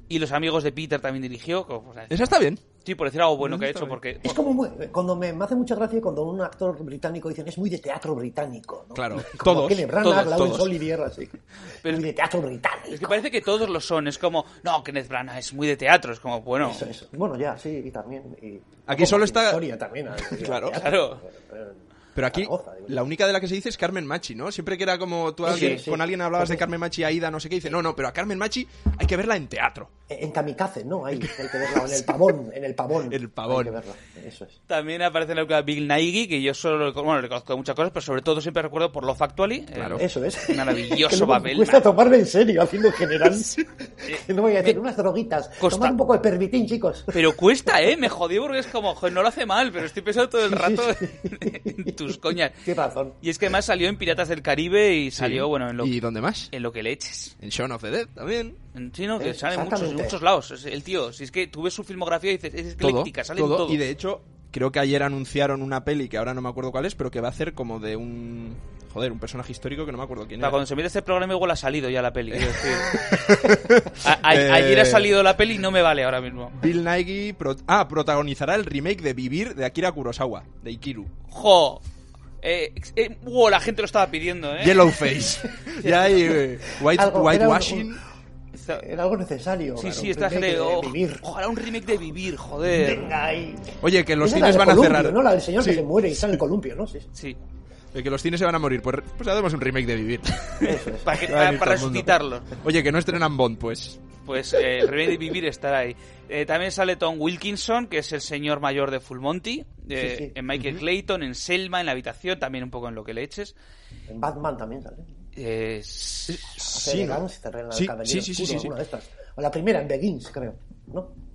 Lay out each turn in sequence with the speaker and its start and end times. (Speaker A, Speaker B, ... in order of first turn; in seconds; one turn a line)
Speaker A: 0.1-4.4
Speaker B: 2.1-2.6
Speaker B: 3.4-4.0
Speaker C: 4.2-13.2
Speaker B: 8.9-10.7
Speaker A: 10.0-10.3
Speaker A: 12.9-16.9
Speaker C: 16.6-23.0
Speaker B: 18.8-19.6
Speaker B: 20.3-20.8
Speaker A: 20.7-21.2
Speaker B: 22.1-29.9
Speaker C: 25.4-26.6
Speaker A: 25.4-25.8
Speaker C: 30.1-34.5
Speaker B: 31.1-32.0
Speaker B: 33.1-33.8
Speaker A: 34.7-41.8
Speaker B: 39.7-40.0
Speaker C: 40.0-47.2
Speaker A: 44.0-44.8
Speaker A: 45.6-45.9
Speaker A: 47.1-52.6
Speaker C: 50.5-51.9
Speaker C: 52.6-53.2
Speaker A: 53.2-55.9
Speaker B: 55.1-56.5
Speaker A: 56.5-57.3
Speaker B: 57.4-58.6
Speaker A: 58.7-63.8
Speaker C: 59.2-60.2
Speaker B: 62.8-70.6
Speaker A: 70.4-73.1
Speaker B: 72.3-75.1
Speaker A: 74.0-76.5
Speaker B: 76.5-81.1
Speaker A: 81.3-81.8
Speaker A: 82.4-85.0
Speaker B: 84.6-88.0
Speaker A: 85.8-86.2
Speaker C: 86.8-88.0
Speaker A: 88.5-88.8
Speaker C: 88.7-91.2
Speaker A: 89.8-93.1
Speaker C: 92.7-97.1
Speaker B: 93.8-96.4
Speaker B: 97.9-100.5
Speaker A: 100.6-102.5
Speaker C: 100.6-101.2
Speaker B: 101.3-104.0
Speaker A: 104.2-113.5
Speaker C: 110.0-110.3
Speaker B: 110.5-110.8
Speaker C: 114.1-115.1
Speaker A: 115.3-116.6
Speaker B: 116.3-118.7
Speaker C: 116.6-121.1